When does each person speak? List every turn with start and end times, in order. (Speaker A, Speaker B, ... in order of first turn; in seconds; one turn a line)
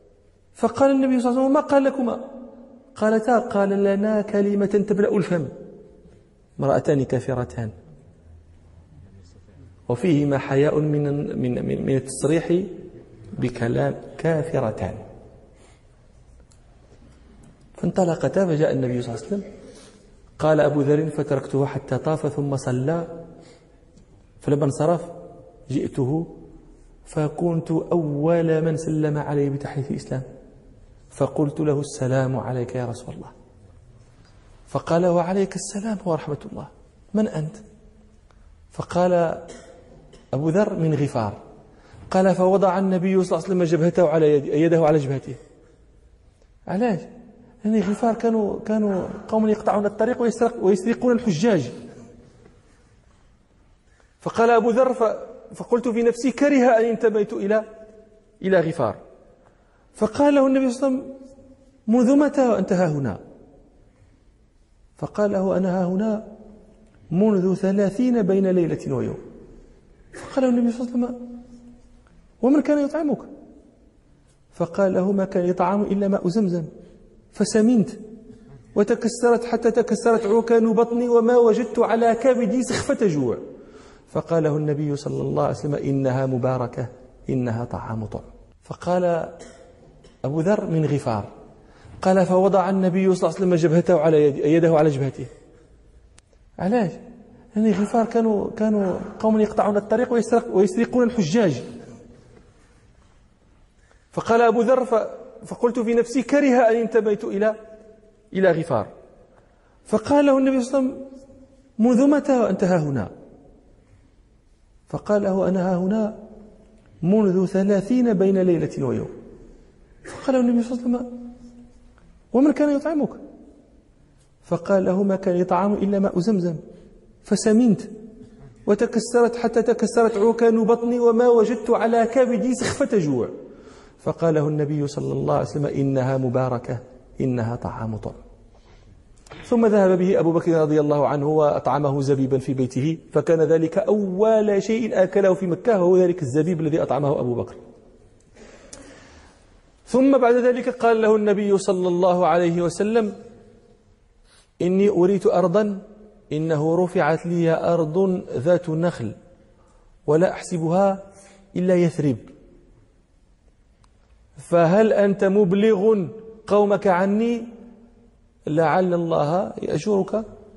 Speaker A: 0.6-2.2
Speaker A: 3.0-5.5
Speaker A: 6.6-7.7
Speaker A: 9.9-12.7
Speaker A: 13.4-15.0
Speaker A: 17.8-19.4
Speaker A: 20.4-23.1
Speaker A: 24.4-25.2
Speaker A: 25.7-26.3
Speaker A: 27.1-30.3
Speaker A: 31.1-33.3
Speaker A: 34.7-37.6
Speaker A: 38.7-39.5
Speaker A: 40.3-41.4
Speaker A: 42.1-45.4
Speaker A: 46.7-47.1
Speaker A: 47.6-51.8
Speaker A: 54.2-57.7
Speaker A: 58.4-59.0
Speaker A: 60.0-61.1
Speaker A: 61.9-63.2
Speaker A: 65.0-66.3
Speaker A: 67.1-69.2
Speaker A: 70.2-71.2
Speaker A: 72.4-73.3
Speaker A: 74.5-76.7
Speaker A: 77.3-78.0
Speaker A: 78.7-83.4
Speaker A: 84.1-89.4
Speaker A: 90.2-91.3
Speaker A: 92.0-95.3
Speaker A: 96.6-97.0
Speaker A: 97.5-101.7
Speaker A: 104.1-107.6
Speaker A: 108.3-108.9
Speaker A: 109.9-111.1
Speaker A: 111.8-113.1
Speaker A: 114.9-116.2
Speaker A: 117.0-119.1
Speaker A: 120.1-121.1
Speaker A: 122.3-123.2
Speaker A: 124.5-126.6
Speaker A: 127.3-127.9
Speaker A: 128.7-133.3
Speaker A: 134.0-138.2
Speaker A: 139.5-147.6
Speaker A: 149.9-153.2
Speaker A: 154.6-159.2
Speaker A: 160.1-162.3
Speaker A: 164.4-167.5
Speaker A: 168.5-170.3